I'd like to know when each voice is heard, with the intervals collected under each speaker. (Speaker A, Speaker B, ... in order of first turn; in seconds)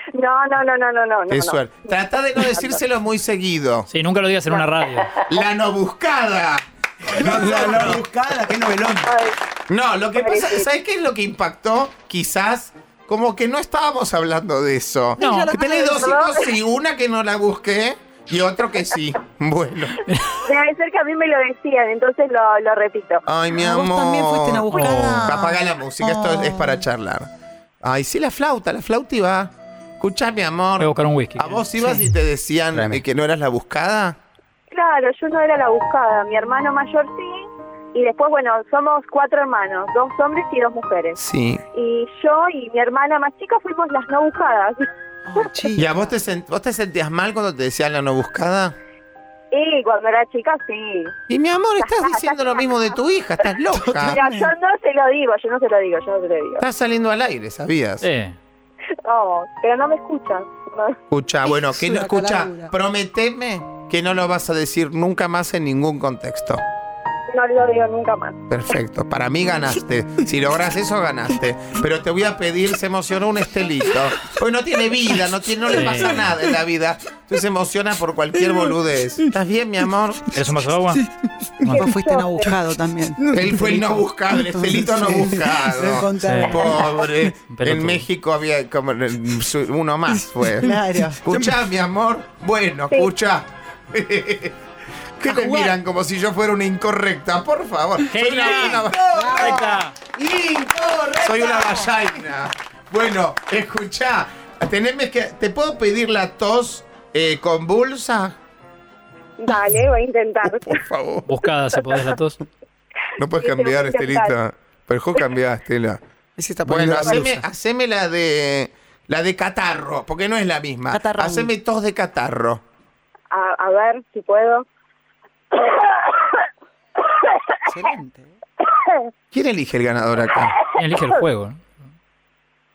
Speaker A: 0.1-2.8, 4.5-4.8, 9.1-9.3, 10.2-10.7, 15.9-16.5, 20.4-23.2, 34.7-41.2, 41.7-44.8, 49.5-51.1, 51.8-52.9, 54.0-56.6, 59.0-61.0, 67.3-68.4, 81.8-82.5, 109.4-110.8, 113.4-114.3, 123.3-124.7, 125.5-126.3, 128.7-129.0
Speaker B: 1.3-3.9, 5.2-6.6, 7.2-8.1, 9.7-20.0, 23.2-27.3, 27.8-34.2, 41.1-41.6, 45.8-48.8, 51.3-54.2, 56.6-58.0, 61.1-66.6, 68.5-80.3, 83.3-94.5, 95.2-99.5, 101.2-108.4, 110.7-111.2, 113.2-116.0, 116.6-122.6, 129.3-130.6
Speaker C: 3.9-5.2, 15.2-15.5, 20.1-20.4, 24.7-25.2, 30.8-31.6, 58.0-58.4, 75.7-76.1, 80.3-81.0, 86.2-86.6, 87.3-88.0, 98.1-99.9, 111.2-112.4, 130.8-131.6
Speaker D: 7.1-9.1, 32.7-33.0, 91.2-91.5, 98.3-101.9, 116.4-117.4
Speaker E: 15.2-16.2, 23.6-26.8, 45.2-46.2, 53.7-54.5, 61.5-62.7, 81.7-86.9, 90.6-91.2, 95.2-95.8, 99.1-99.6, 120.9-121.5, 127.7-128.3